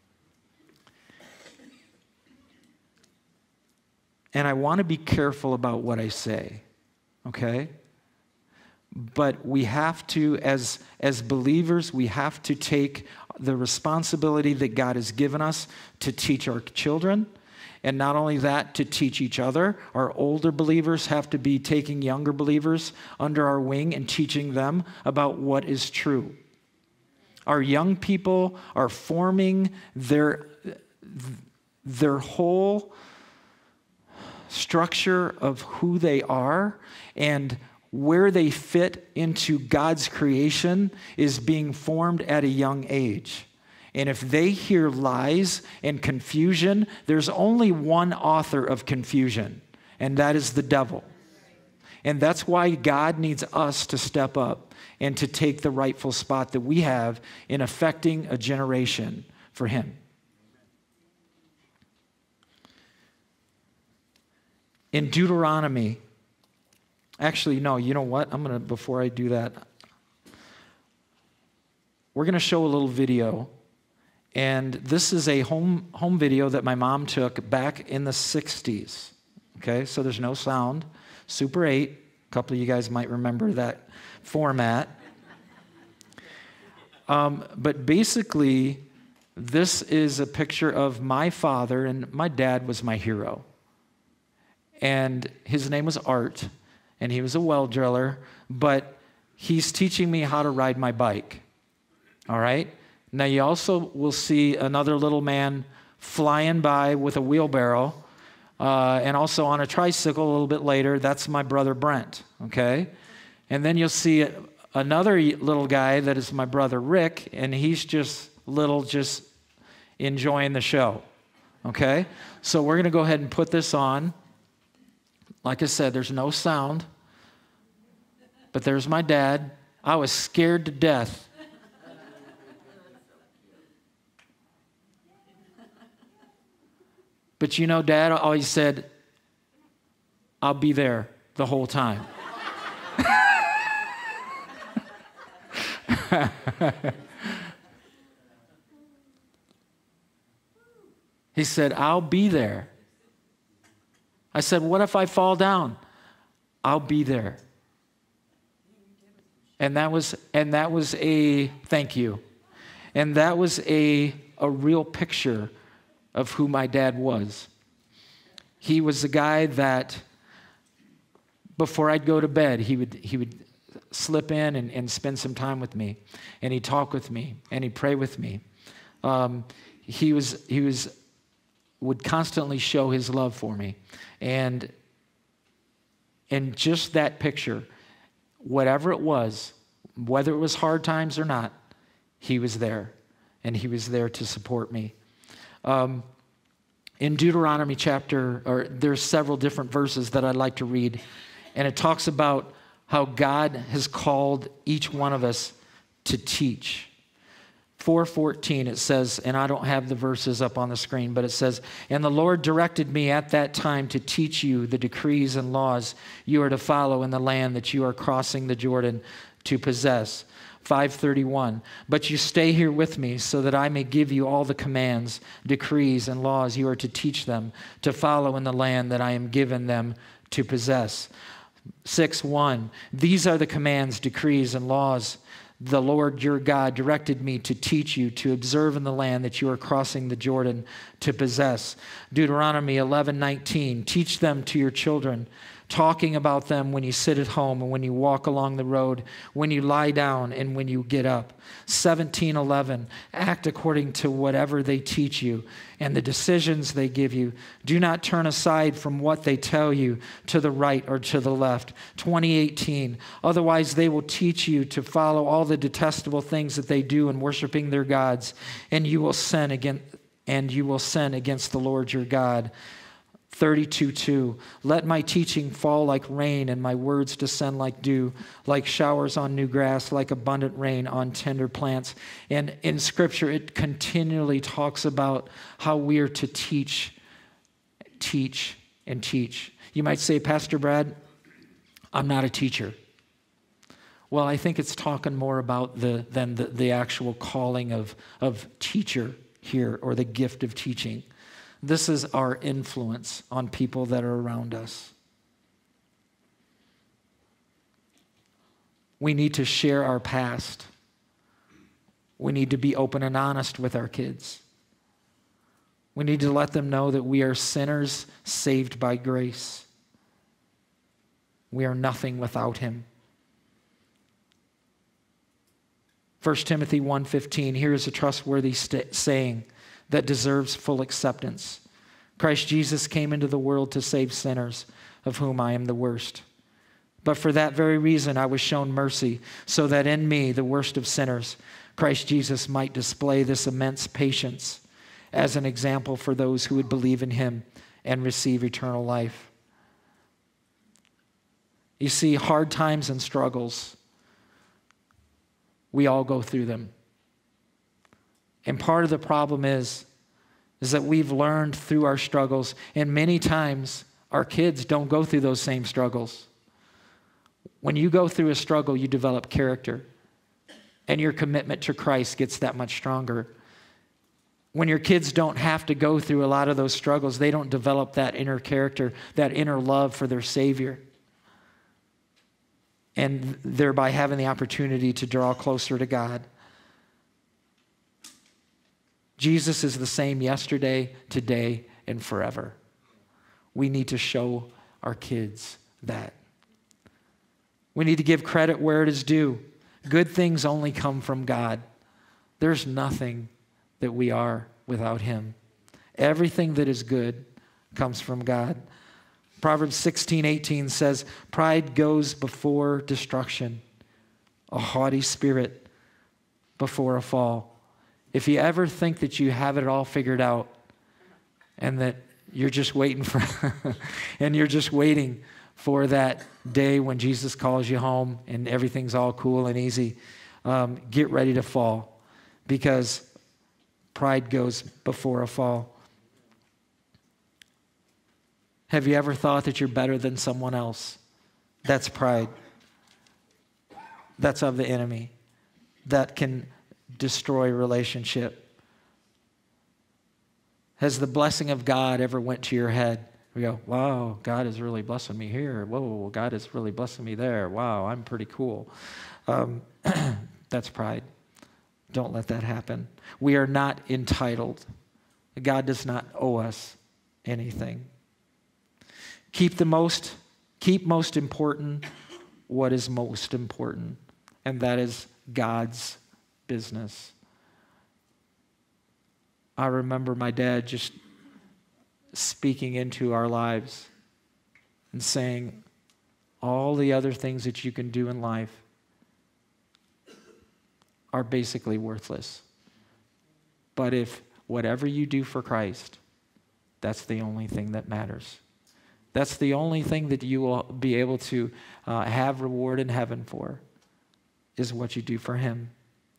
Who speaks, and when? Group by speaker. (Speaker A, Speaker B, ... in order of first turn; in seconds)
Speaker A: 4.3-6.6, 7.2-7.7, 8.9-17.3, 17.8-26.4, 27.5-32.9, 34.5-51.1, 52.0-60.0, 64.9-66.0, 67.2-69.6, 72.1-73.5, 74.3-84.9, 87.1-88.8, 89.3-93.5, 94.8-101.4, 102.3-108.0, 108.6-112.9, 113.5-119.3, 120.0-121.0, 121.6-124.1, 125.4-126.9, 128.5-131.3, 137.4-138.9, 140.4-142.1, 145.9-146.9, 151.3-152.7, 154.3-155.8, 156.6-157.4, 159.6-162.2, 162.9-165.5, 166.1-167.5, 168.6-170.0, 171.6-178.4, 179.0-180.9, 181.8-184.7, 186.3-187.7, 188.4-191.5, 192.2-194.9, 195.6-196.1, 197.0-201.0, 201.5-206.9, 207.8-231.1, 231.8-272.5, 273.3-286.9, 288.0-291.0, 291.9-292.8, 294.1-301.1, 301.6-304.9, 309.0-310.7, 312.2-314.4, 315.9-319.7, 321.5-322.9, 326.2-331.6, 332.2-336.2, 337.0-349.3, 351.8-353.8, 355.7-356.7, 358.4-359.9, 360.6-366.3, 367.6-369.9, 370.9-373.3, 374.5-380.8, 382.9-386.3, 389.2-392.6, 393.5-396.1, 397.7-401.6, 402.4-405.4, 406.0-408.6, 409.4-413.6, 414.5-415.7, 416.6-417.5, 418.1-420.5, 421.6-433.1, 433.9-435.7, 438.7-441.0, 441.6-442.3, 444.2-445.1, 445.8-448.4, 450.8-458.7, 459.3-461.1, 461.9-464.7, 465.4-467.9, 469.3-471.9, 472.5-477.1, 479.6-480.9, 482.1-483.9, 484.9-485.6, 486.4-488.6, 491.1-492.4, 493.8-496.0, 496.8-498.4, 499.1-503.6, 504.6-505.7